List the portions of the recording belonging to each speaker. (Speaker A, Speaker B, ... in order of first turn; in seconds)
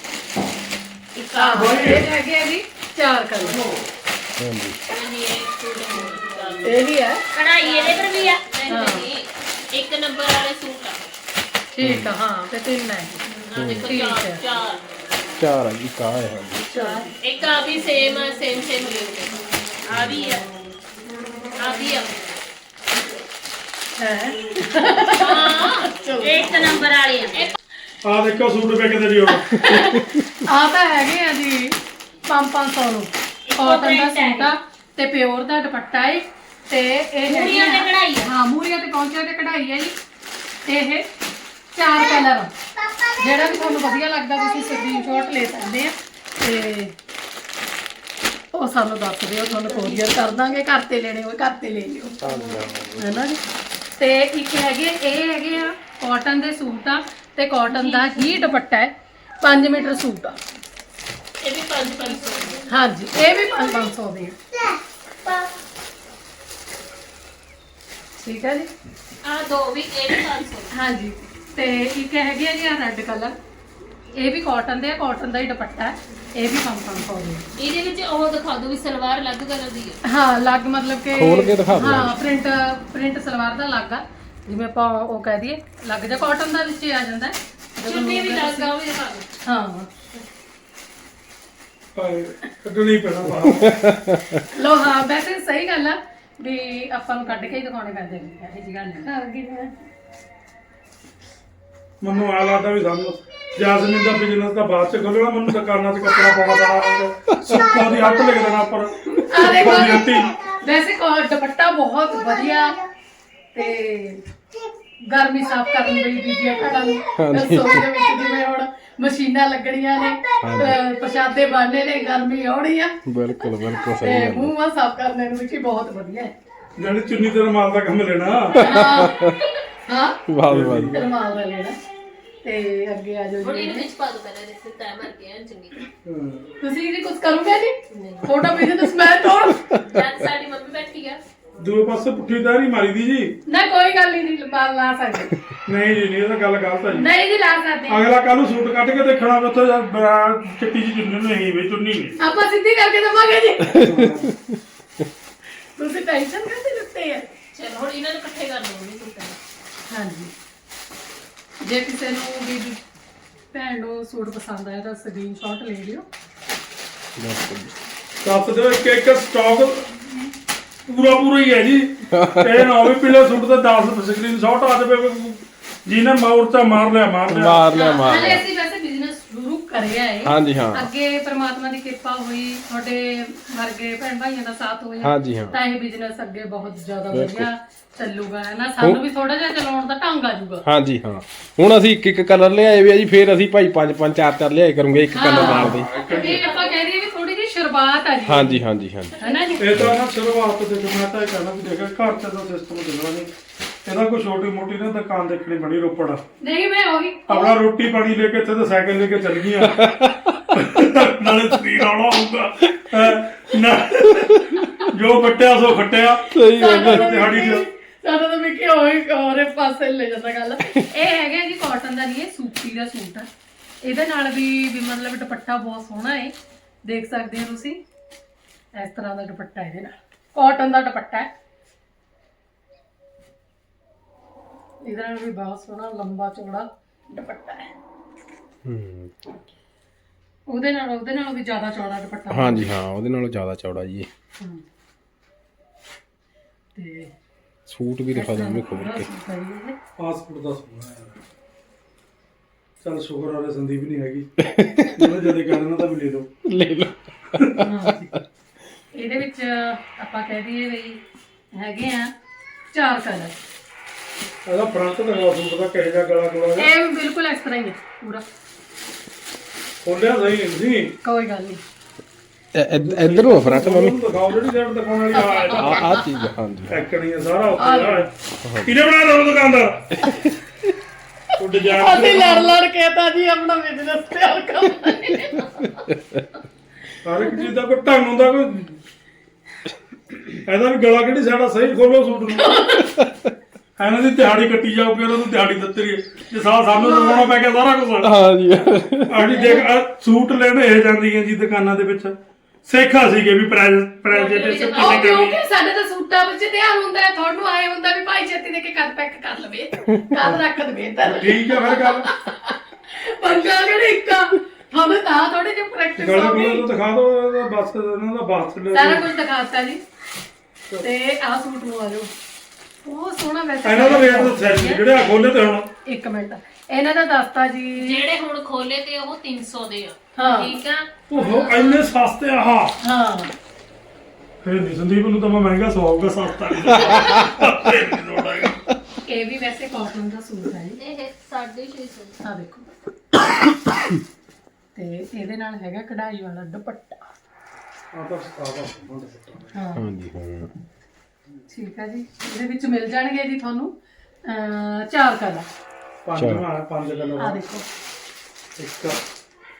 Speaker A: 1.1-2.0, 7.3-8.4, 16.7-17.1, 19.9-20.5, 26.2-27.5, 33.5-34.5, 37.2-38.3, 49.5-50.0, 57.7-58.4
Speaker B: 1.3-3.6, 6.6-7.2, 8.7-9.1, 11.7-13.2, 13.8-14.4, 16.7-17.1, 24.0-26.6, 29.6-31.7, 32.3-39.9, 40.7-41.1, 41.7-42.5, 43.2-46.9, 48.5-52.2, 53.0-53.4, 54.0-60.4, 62.7-64.4, 68.2-68.7, 70.7-73.3, 74.2-77.5, 80.0-88.7, 89.4-89.9, 94.5-99.7, 109.3-112.8, 113.5-114.2, 115.1-123.0, 124.0-126.3, 128.6-129.3, 129.9-130.2, 130.9-131.8, 132.4-133.9, 136.6-139.6, 143.5-145.3, 146.9-148.0, 152.2-153.8, 155.8-157.3, 159.9-160.3, 161.6-162.8, 163.5-166.0, 177.7-190.6, 195.1-198.6, 199.2-199.8, 206.4-207.6, 216.6-223.3, 223.8-226.3, 226.8-227.8, 228.8-231.3, 234.8-237.7, 240.5-242.7, 246.8-247.1, 248.1-249.8, 257.6-258.1, 258.9-261.0, 261.5-262.1, 262.7-263.4, 266.6-268.2, 271.0-271.6, 275.1-276.2, 277.6-278.1, 281.7-285.7, 292.4-292.9, 296.8-297.3, 299.3-299.7, 304.7-316.7, 318.7-319.8, 320.8-322.1, 322.8-325.1, 325.8-328.0, 330.1-330.5, 332.8-333.3, 339.1-340.8, 342.2-342.8, 344.8-347.0, 349.5-349.8, 351.5-353.7, 354.2-355.4, 357.2-357.7
Speaker C: 1.5-2.1, 3.4-3.8, 28.0-29.6, 91.9-93.7, 102.0-110.3, 126.8-128.7, 130.5-131.1, 136.0-136.5, 141.6-143.3, 145.7-147.1, 147.9-152.2, 153.8-154.3, 168.2-170.3, 170.9-177.6, 195.3-196.5, 199.6-203.3, 203.8-206.2, 207.3-209.9, 210.5-217.6, 250.0-251.2, 252.8-254.3, 254.9-256.3, 264.4-266.7, 269.8-270.9, 272.7-275.9, 276.7-278.1, 278.6-280.0, 281.4-282.6, 287.0-288.8, 290.4-292.8, 293.8-298.1, 299.1-305.4, 311.0-312.1, 316.0-319.1, 323.6-325.7, 331.1-332.8, 334.4-338.6, 347.9-349.5, 356.0-357.4, 358.6-359.0
Speaker D: 4.4-4.8, 11.8-12.1, 13.5-13.9, 15.4-16.7, 29.7-30.0, 52.2-53.2, 81.1-82.2, 93.4-94.4, 107.3-107.8, 117.2-117.9, 120.4-120.8, 123.0-124.5, 128.6-129.5, 130.3-131.0, 139.5-140.1, 153.7-154.6, 167.2-167.7, 172.1-172.9, 177.3-178.4, 180.2-180.9, 185.0-185.6, 187.1-187.5, 190.6-195.9, 198.2-199.2, 209.6-210.5, 216.3-217.2, 238.6-239.1, 242.3-244.1, 247.7-249.1, 254.4-255.0, 256.4-258.2, 272.5-274.1, 275.5-276.9, 278.4-278.8, 280.0-280.3, 285.8-286.2, 298.0-299.3, 349.8-350.5, 356.2-356.5
Speaker E: 4.9-6.8, 7.6-11.1, 13.4-14.9, 17.2-19.5, 21.6-22.2, 25.1-25.9, 61.4-62.6, 69.2-70.7, 77.6-80.0, 87.8-89.3, 133.4-135.8, 137.9-138.3, 139.8-141.2, 157.5-159.4, 195.9-196.7, 199.2-199.4, 304.1-305.4, 327.8-331.8, 340.8-342.1